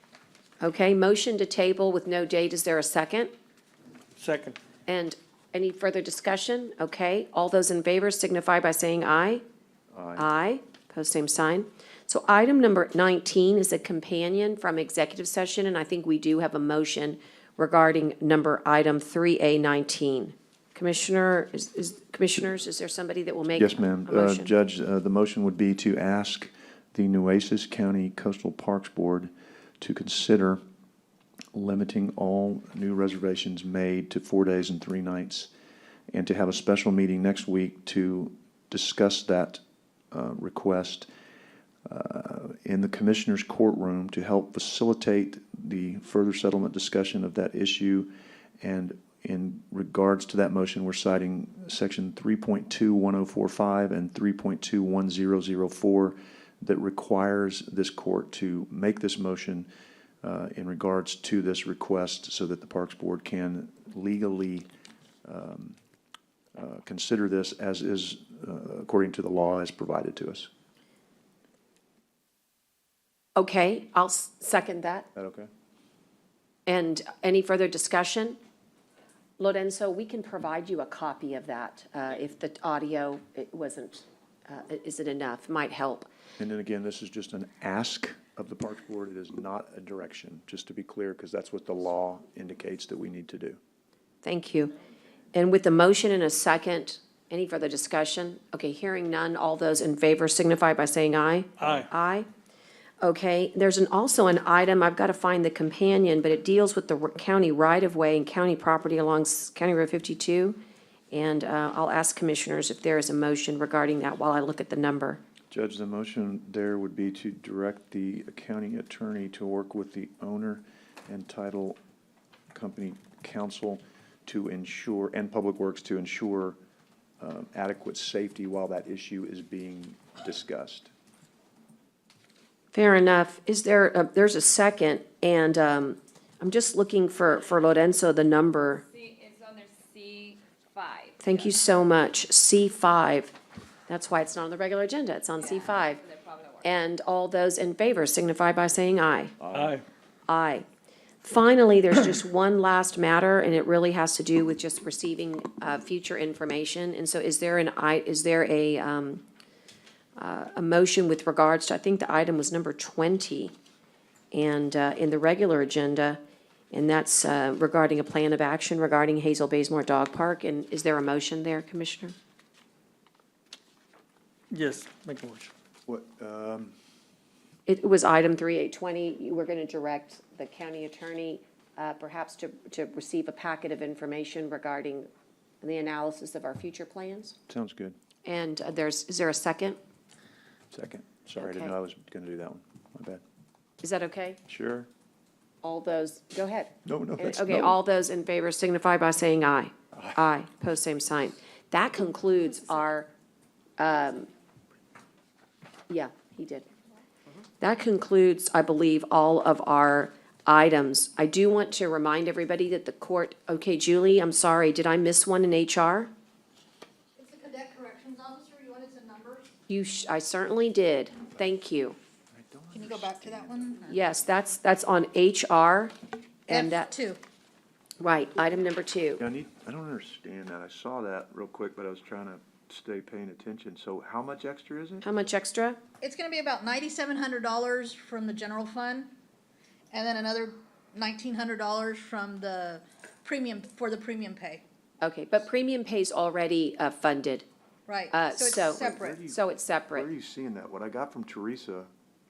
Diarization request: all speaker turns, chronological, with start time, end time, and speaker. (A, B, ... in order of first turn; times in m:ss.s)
0:00.6-0:03.3 A
0:04.2-0:04.6 B
0:04.9-0:09.4 A
0:09.9-0:10.3 C
0:10.2-0:24.5 A
0:23.5-0:30.6 C
0:31.5-0:35.5 C
0:36.1-0:41.1 C
0:41.8-0:59.7 C
1:00.2-1:04.7 C
1:05.2-1:05.8 C
1:06.5-1:10.5 C
1:13.4-1:15.1 A
1:15.2-1:15.5 C
1:16.7-1:18.4 A
1:19.4-1:26.1 A
1:26.4-1:33.6 C
1:34.2-1:34.7 A
1:35.3-1:42.3 A
1:41.6-1:41.9 B
1:43.0-1:50.6 A
1:51.1-1:55.2 A
1:55.5-2:01.8 C
2:02.5-2:06.6 C
2:07.2-2:10.9 C
2:12.7-2:18.8 A
2:18.7-2:21.3 D
2:21.2-2:23.4 A
2:23.9-2:26.0 A
2:25.4-2:26.7 D
2:26.6-2:29.4 A
2:29.4-2:29.8 C
2:29.5-2:29.8 B
2:30.3-2:30.6 A
2:31.2-2:39.2 A
2:40.2-2:43.5 A
2:44.3-2:46.2 A
2:46.7-2:52.1 A
2:54.5-2:55.5 B
2:55.9-2:56.8 C
2:57.7-3:05.1 A
3:05.6-3:07.4 A
3:07.5-3:08.0 C
3:08.2-3:09.8 A
3:10.7-3:13.2 C
3:11.4-3:11.7 A
3:13.8-3:14.4 A
3:14.5-3:14.9 C
3:15.6-3:23.1 A
3:16.8-3:17.8 C
3:23.8-3:24.3 A
3:25.9-3:26.7 A
3:27.6-3:36.1 A
3:37.2-3:39.5 E
3:39.7-3:42.0 A
3:42.3-3:43.7 C
3:42.7-3:44.0 E
3:43.9-3:45.9 A
3:46.5-3:46.9 A
3:46.5-3:47.2 E
3:48.0-3:49.2 A
3:49.2-3:55.0 C
3:55.0-3:55.8 A
3:56.0-3:59.1 E
3:59.9-4:04.6 E
4:05.0-4:07.4 A
4:07.9-4:09.2 E
4:08.1-4:10.1 A
4:08.8-4:09.4 C
4:09.9-4:11.9 C